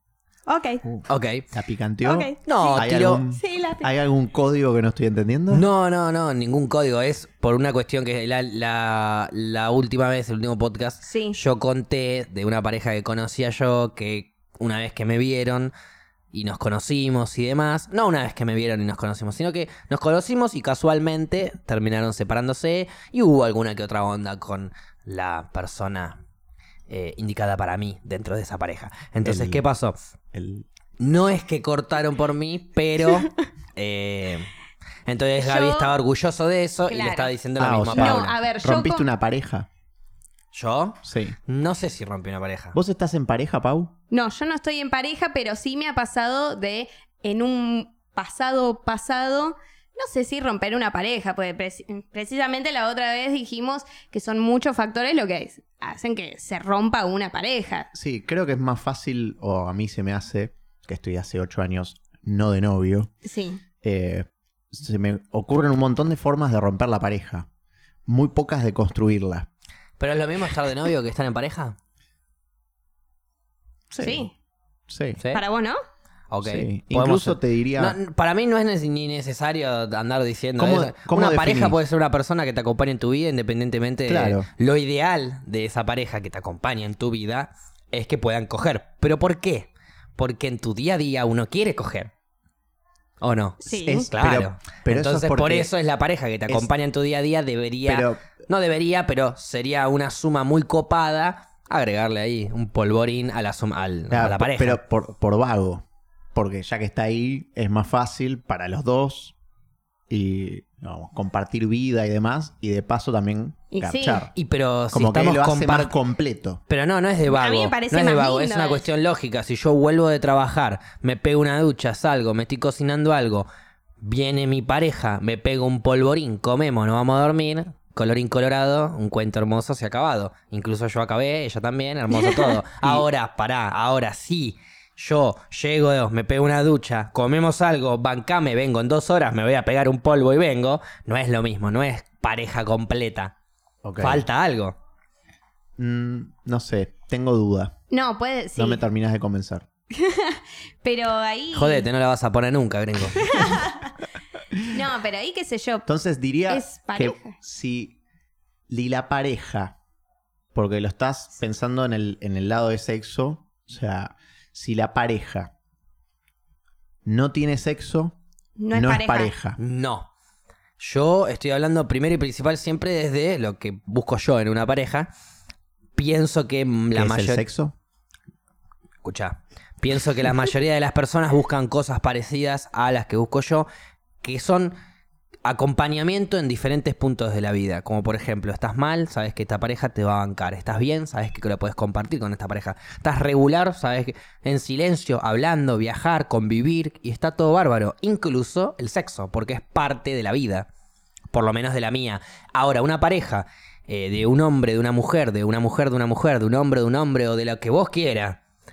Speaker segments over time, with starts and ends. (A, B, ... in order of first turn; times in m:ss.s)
0:00.5-0:00.8 A
0:00.8-0:05.6 B
0:01.1-0:01.4 C
0:02.0-0:03.9 A
0:02.4-0:03.2 C
0:05.5-0:15.7 C
0:11.0-0:11.4 A
0:16.3-0:26.2 C
0:26.9-0:30.0 C
0:29.2-0:29.6 B
0:30.3-0:30.7 B
0:31.0-0:34.5 C
0:35.0-0:38.3 C
0:35.4-0:36.0 A
0:36.9-0:37.3 A
0:37.6-0:39.7 B
0:37.9-0:39.0 A
0:40.5-0:42.8 C
0:41.0-0:41.4 B
0:42.7-0:43.9 B
0:44.1-0:57.9 A
0:57.9-1:03.1 B
1:03.2-1:03.6 A
1:03.8-1:07.5 B
1:08.0-1:09.5 B
1:10.0-1:11.8 C
1:13.9-1:14.3 B
1:14.0-1:14.3 A
1:14.9-1:15.2 B
1:15.3-1:15.8 A
1:16.3-1:32.1 C
1:16.4-1:18.0 B
1:20.6-1:21.8 B
1:24.1-1:24.5 B
1:33.2-1:44.8 C
1:33.6-1:34.1 A
1:33.8-1:35.7 B
1:37.8-1:38.2 B
1:44.1-1:49.3 B
1:50.1-1:54.3 B
1:53.7-1:54.2 A
1:54.3-1:55.9 C
1:54.9-1:56.6 B
1:56.7-2:03.5 C
1:57.3-1:58.8 A
2:04.0-2:23.3 C
2:23.8-2:24.2 B
2:24.0-2:24.7 C
2:25.8-2:27.7 B
2:27.9-2:28.8 A
2:28.5-2:29.6 B
2:29.9-2:31.8 A
2:31.5-2:33.4 C
2:33.1-2:33.9 A
2:34.6-2:35.8 A
2:35.9-2:38.0 B
2:36.5-2:37.3 A
2:38.7-2:39.7 B
2:40.5-2:45.5 B
2:47.0-2:48.2 B
2:48.6-2:49.3 A
2:48.7-2:49.6 B
2:49.6-2:50.1 C
2:50.8-2:55.1 C
2:56.0-2:57.4 C
2:56.9-2:57.7 B
2:59.0-3:03.7 C
3:04.2-3:04.7 C
3:05.4-3:20.7 C
3:21.3-3:28.4 C